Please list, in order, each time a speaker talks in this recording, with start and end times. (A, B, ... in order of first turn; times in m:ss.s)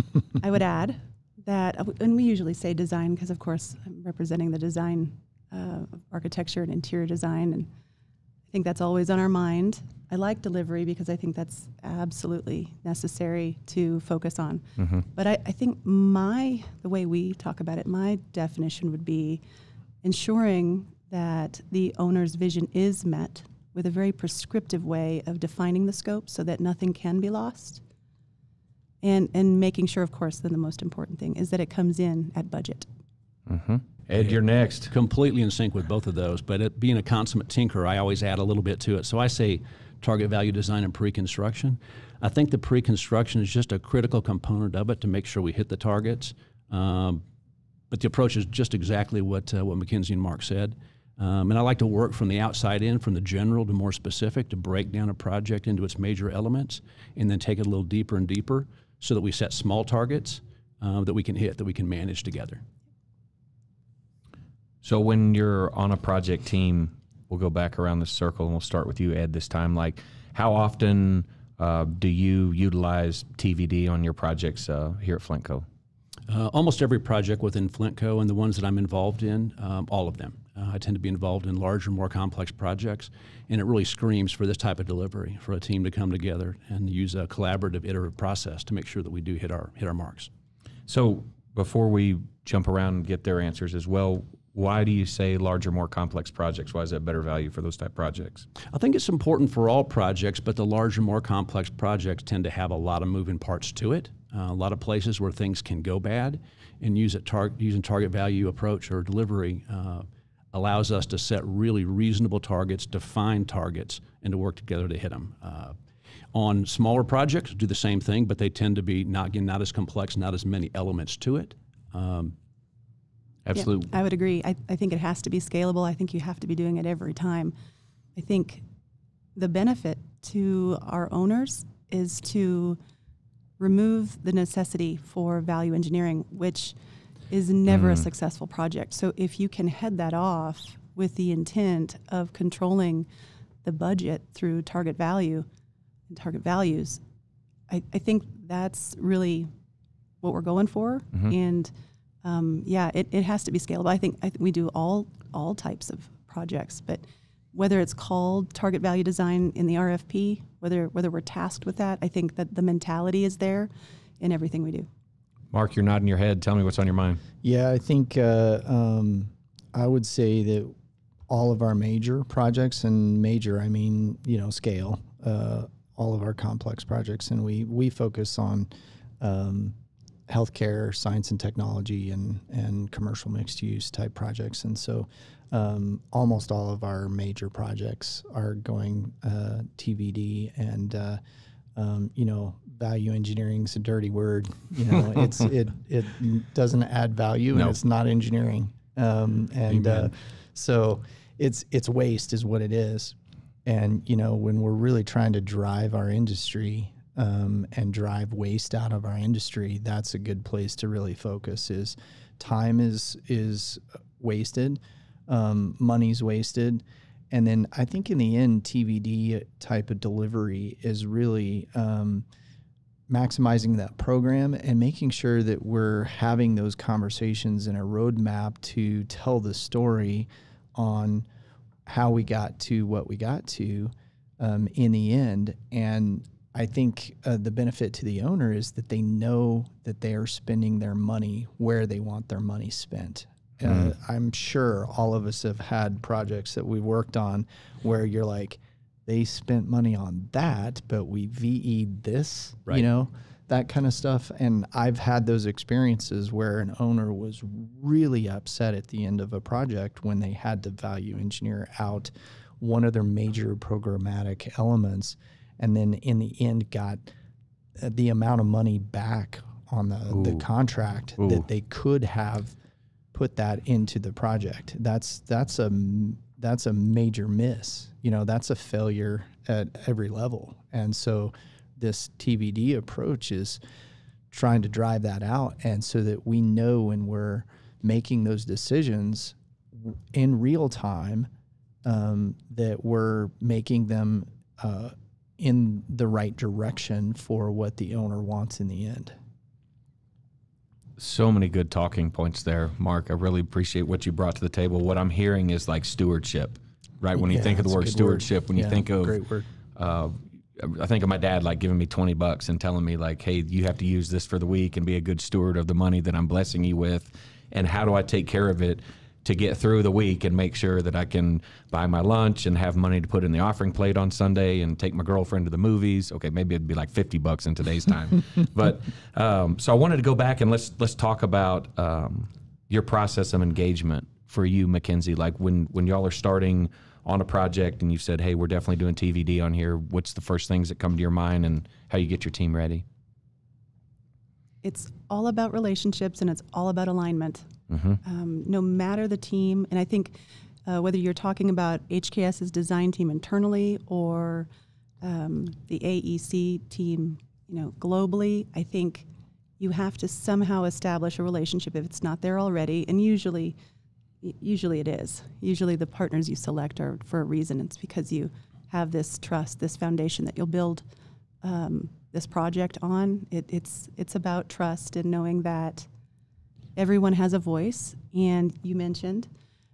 0:00.4-0:07.7 A
0:08.5-0:19.4 A
0:14.8-0:15.0 B
0:20.0-0:27.8 A
0:29.0-0:32.9 A
0:33.5-0:34.9 B
0:34.9-0:47.2 C
0:47.9-1:02.6 C
1:04.8-1:15.6 B
1:16.3-1:30.3 C
1:30.9-1:38.4 B
1:38.7-1:55.7 C
1:56.3-2:02.3 C
2:03.4-2:03.9 B
2:03.5-2:07.5 A
2:08.1-2:08.6 A
2:09.4-2:12.8 A
2:13.6-2:16.7 A
2:17.3-2:23.1 A
2:17.7-2:18.0 B
2:23.6-2:25.5 A
2:26.1-2:27.0 A
2:27.7-2:29.5 A
2:30.2-2:31.7 A
2:32.2-2:44.9 A
2:45.5-2:47.2 B
2:47.4-2:50.7 D
2:51.3-2:59.8 D
3:00.3-3:11.2 D
3:11.8-3:42.2 D
3:19.7-3:20.1 C
3:43.1-3:51.2 D
3:51.8-4:27.1 D
4:27.8-4:32.6 D
4:30.1-4:30.4 B
4:31.2-4:31.4 B
4:33.1-4:43.6 D
4:44.3-4:51.3 D
4:51.8-4:59.1 D
5:01.0-5:09.2 B
5:07.2-5:09.5 D
5:09.7-5:42.8 B
5:44.6-5:47.5 A
5:47.7-5:48.0 B
5:48.0-5:54.5 A
5:55.0-5:59.1 A
5:59.6-6:03.6 A
6:04.2-6:10.8 A
6:11.4-6:15.9 A
6:16.8-6:19.3 A